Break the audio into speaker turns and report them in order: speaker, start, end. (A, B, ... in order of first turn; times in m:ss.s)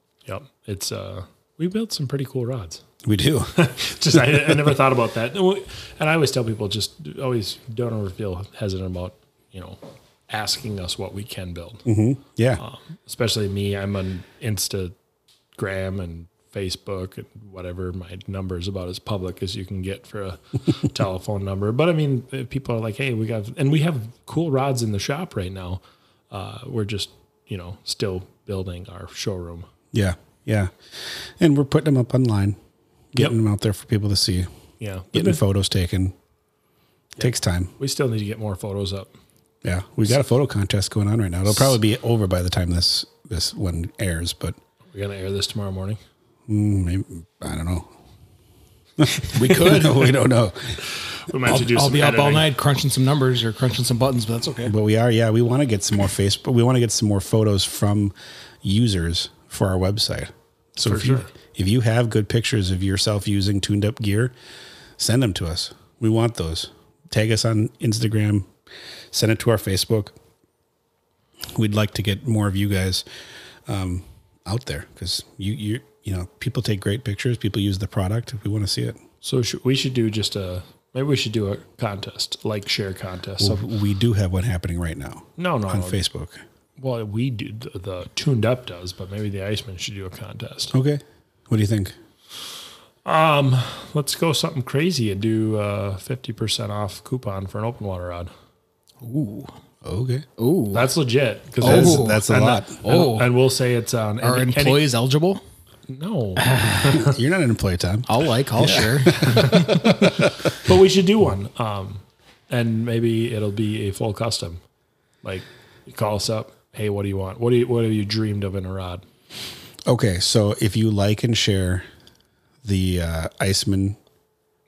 0:00.2-0:02.8 A
0:03.0-0:03.5 B
0:03.5-0:11.8 A
0:04.1-0:04.6 B
0:11.8-0:12.6 B
0:12.6-0:14.9 A
0:15.6-0:29.7 A
0:29.9-0:32.6 B
0:33.1-0:34.5 B
0:34.8-0:35.4 A
0:35.1-0:36.2 B
0:37.2-0:37.7 B
0:37.2-0:39.1 A
0:39.6-0:44.6 B
0:44.9-0:46.0 A
0:46.5-0:47.9 B
0:49.0-0:50.8 B
0:49.3-0:50.1 C
0:51.1-0:52.5 A
0:51.4-0:54.7 C
0:54.6-1:04.3 B
1:00.8-1:01.3 A
1:05.0-1:08.5 B
1:09.1-1:10.2 B
1:11.5-1:13.0 B
1:13.6-1:19.0 B
1:19.2-1:23.6 A
1:23.4-1:26.4 B
1:25.4-1:26.0 A
1:26.8-1:30.7 A
1:30.7-1:31.9 B
1:33.0-1:38.3 A
1:39.0-1:39.5 C
1:39.8-1:40.3 B
1:40.4-1:40.9 C
1:40.7-1:44.9 A
1:41.6-1:43.4 C
1:41.6-1:42.8 B
1:44.2-1:45.4 C
1:45.9-1:47.1 A
1:46.4-1:47.0 C
1:46.6-1:50.3 B
1:48.1-1:49.9 C
1:49.4-1:54.6 A
1:55.2-1:59.0 A
1:59.8-2:01.8 B
2:02.6-2:04.0 B